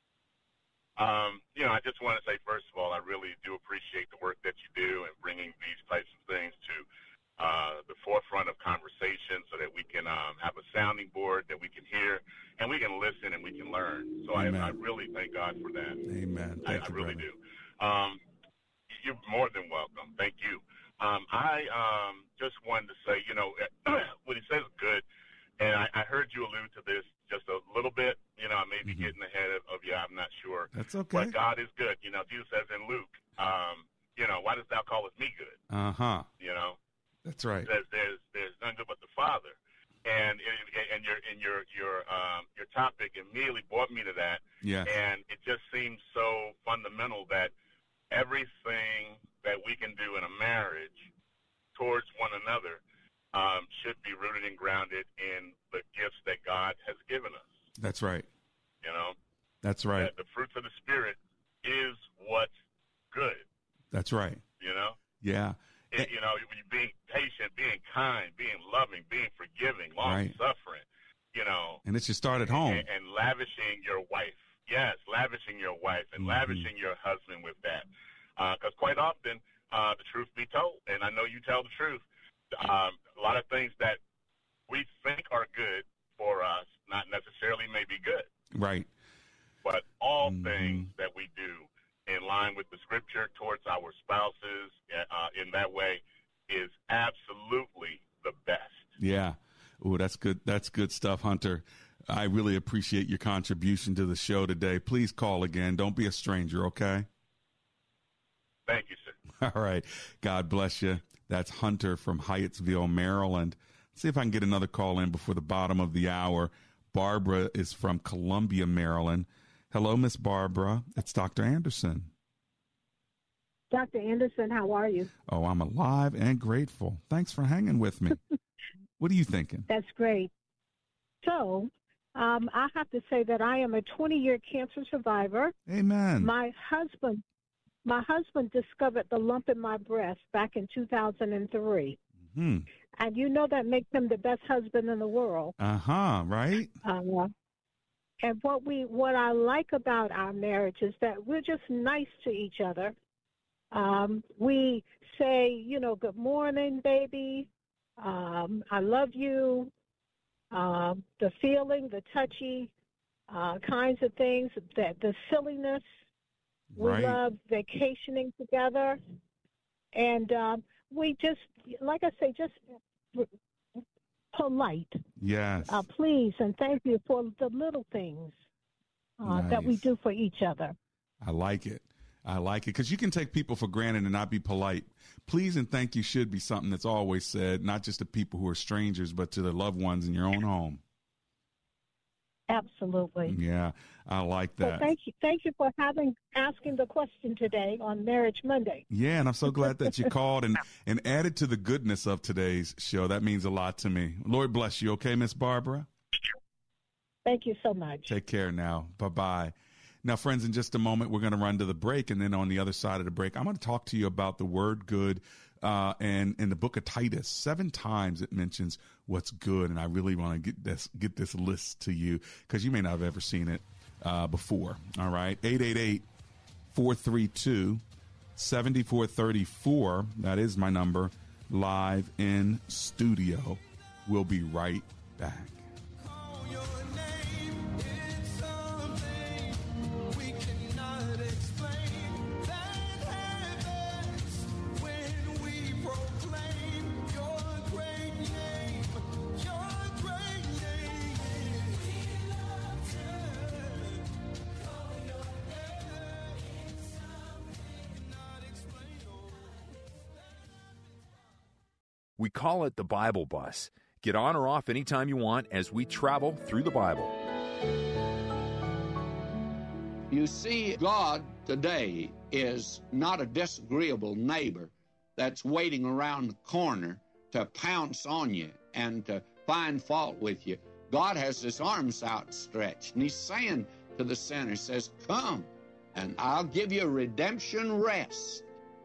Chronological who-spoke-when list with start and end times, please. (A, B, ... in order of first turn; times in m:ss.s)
0:01.0-0:06.9 A
0:07.4-0:16.0 A
0:14.3-0:14.8 B
0:16.1-0:17.2 B
0:16.6-0:18.2 A
0:18.9-0:25.0 A
0:25.6-0:35.6 A
0:28.8-0:29.1 B
0:30.7-0:31.4 B
0:35.7-0:36.3 B
0:36.4-0:36.8 A
0:37.2-0:37.7 B
0:37.6-0:47.5 A
0:44.6-0:44.9 B
0:48.1-0:51.1 A
0:51.7-0:52.8 A
0:53.3-0:57.5 A
0:57.8-0:58.3 B
0:58.8-0:59.1 A
0:59.6-1:00.1 B
1:00.0-1:02.5 A
1:03.1-1:03.4 A
1:03.9-1:04.4 B
1:04.6-1:05.0 A
1:05.2-1:06.1 B
1:05.9-1:11.8 A
1:10.0-1:10.3 B
1:11.8-1:12.8 B
1:12.5-1:24.0 A
1:16.2-1:16.7 B
1:24.7-1:28.3 A
1:28.5-1:28.9 B
1:29.6-1:38.9 A
1:30.2-1:30.9 B
1:39.0-1:47.1 B
1:48.7-1:49.1 A
1:49.4-2:02.1 B
2:03.7-2:05.1 C
2:05.3-2:08.2 B
2:09.0-2:09.7 B
2:09.7-2:10.3 C
2:11.2-2:15.5 C
2:15.7-2:16.3 B
2:16.2-2:17.2 C
2:17.8-2:22.0 C
2:22.3-2:22.7 B
2:23.0-2:25.5 C
2:25.6-2:26.7 B
2:26.8-2:27.3 C
2:28.2-2:32.9 C
2:33.7-2:39.7 C
2:40.5-2:42.7 C
2:43.3-2:45.8 C
2:46.7-2:47.2 B
2:46.8-2:49.0 C
2:49.9-2:53.3 C
2:54.3-2:55.0 C
2:55.2-2:55.9 B
2:55.6-2:58.4 C
2:59.2-3:00.7 C
2:59.2-2:59.9 B
3:01.2-3:10.8 B
3:12.5-3:13.3 C
3:13.2-3:14.9 B
3:14.6-3:18.8 C
3:18.9-3:25.9 B
3:19.6-3:19.9 C
3:27.2-3:28.1 C
3:28.1-3:46.0 B
3:46.7-3:47.8 B
3:48.4-3:55.6 B
3:56.0-4:12.2 D
4:12.9-4:14.0 D
4:15.5-4:16.2 D
4:17.9-4:19.5 D
4:22.2-4:27.1 E
4:30.1-4:48.4 D